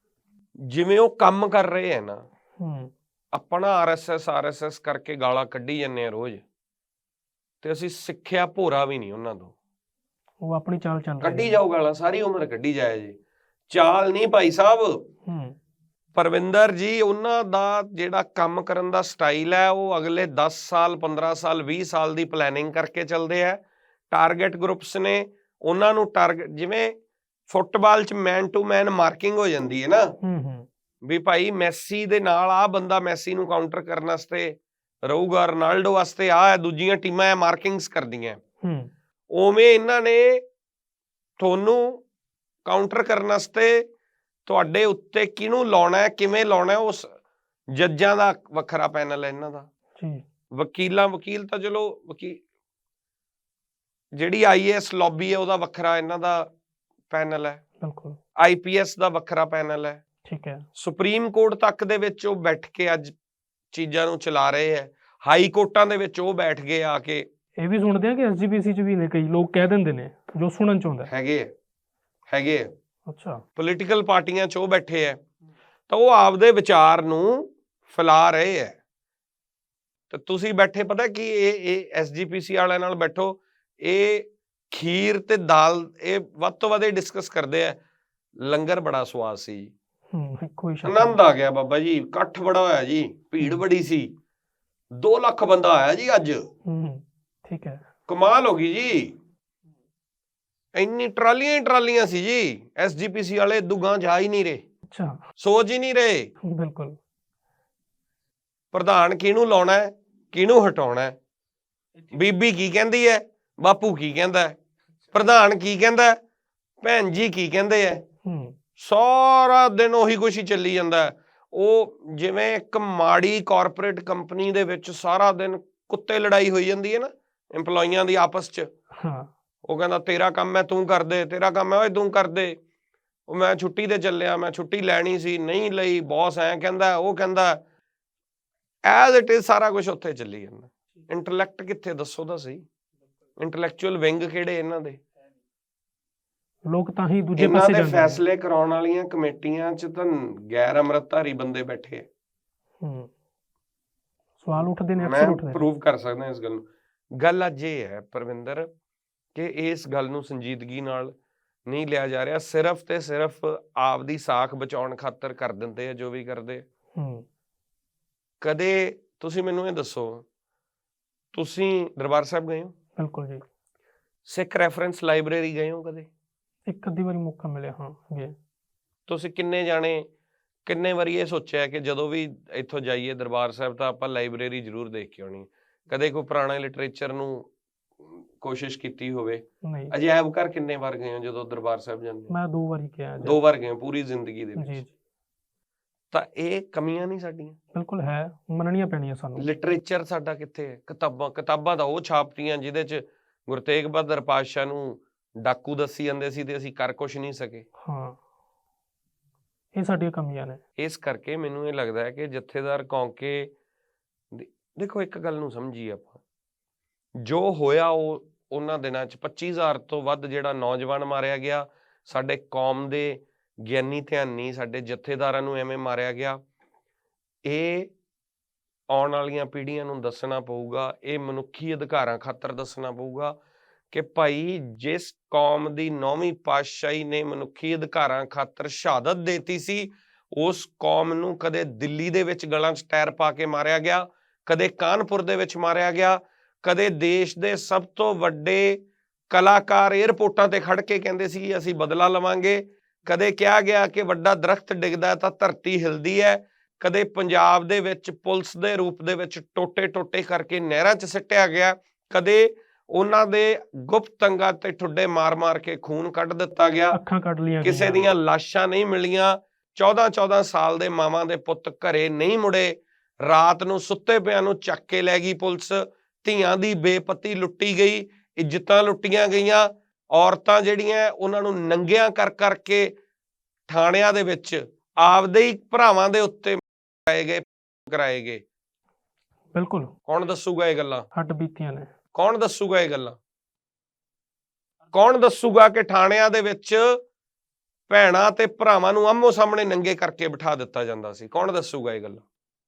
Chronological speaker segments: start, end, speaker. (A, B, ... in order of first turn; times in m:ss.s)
0:00.7-0:02.2 A
0:02.6-0:02.9 B
0:03.3-0:06.4 A
0:07.6-0:09.5 A
0:10.4-0:11.6 B
0:11.2-0:13.2 A
0:13.7-0:15.0 A
0:15.3-0:15.6 B
0:16.2-0:26.9 A
0:27.5-0:30.1 A
0:30.2-0:30.7 B
0:31.0-0:38.4 A
0:38.6-0:38.9 B
0:39.3-0:40.4 A
0:41.4-0:42.0 A
0:42.6-0:43.9 A
0:44.5-0:47.1 A
0:47.7-0:49.7 A
0:50.0-0:50.2 B
0:50.5-0:52.4 A
0:54.2-0:56.5 A
0:57.1-0:57.6 A
0:57.8-0:58.2 B
0:58.4-1:00.0 A
1:00.2-1:00.7 B
1:00.8-1:03.1 A
1:03.7-1:07.3 A
1:07.6-1:11.1 B
1:11.1-1:11.5 A
1:12.3-1:12.7 A
1:13.1-1:13.4 B
1:13.6-1:15.2 A
1:15.9-1:18.8 A
1:20.1-1:27.8 A
1:28.4-1:29.7 A
1:30.1-1:31.2 B
1:30.8-1:34.1 A
1:35.0-1:36.5 A
1:36.7-1:37.8 B
1:38.1-1:39.1 A
1:40.8-1:44.6 A
1:44.9-1:45.2 B
1:45.4-1:46.3 A
1:46.4-1:47.0 B
1:48.7-1:51.2 A
1:52.1-1:54.6 A
1:55.1-1:56.2 A
1:56.8-1:58.0 A
1:58.2-1:58.6 B
1:58.8-2:08.7 A
2:09.0-2:09.3 B
2:09.6-2:12.6 A
2:13.3-2:17.6 A
2:18.9-2:22.7 A
2:23.4-2:25.0 A
2:26.7-2:28.2 B
2:27.4-2:32.1 A
2:32.8-2:33.1 B
2:34.4-2:35.6 B
2:35.0-2:36.6 A
2:37.2-2:38.7 A
2:39.4-2:41.2 A
2:41.7-2:46.6 A
2:47.0-2:47.2 B
2:48.4-2:50.2 A
2:51.3-2:52.7 A
2:53.0-2:53.4 B
2:54.3-2:56.1 A
2:56.7-2:58.4 B
2:59.1-3:00.1 A
3:00.7-3:07.5 A
3:08.0-3:12.3 A
3:09.6-3:09.9 B
3:12.3-3:13.4 B
3:13.2-3:14.8 A
3:14.6-3:14.9 B
3:16.1-3:17.6 A
3:17.7-3:19.5 B
3:19.4-3:27.7 A
3:27.8-3:28.2 B
3:29.7-3:30.6 B
3:30.8-3:33.5 A
3:34.3-3:36.2 A
3:37.2-3:46.4 A
3:47.5-3:47.9 A
3:48.9-3:53.4 A
3:53.9-4:27.0 A
4:26.9-4:28.1 B
4:27.6-4:42.9 A
4:43.7-4:48.4 A
4:49.5-4:49.9 B
4:50.1-4:51.1 A
4:51.1-4:51.9 B
4:52.1-4:53.2 A
4:54.9-4:57.0 A
4:57.9-5:02.3 A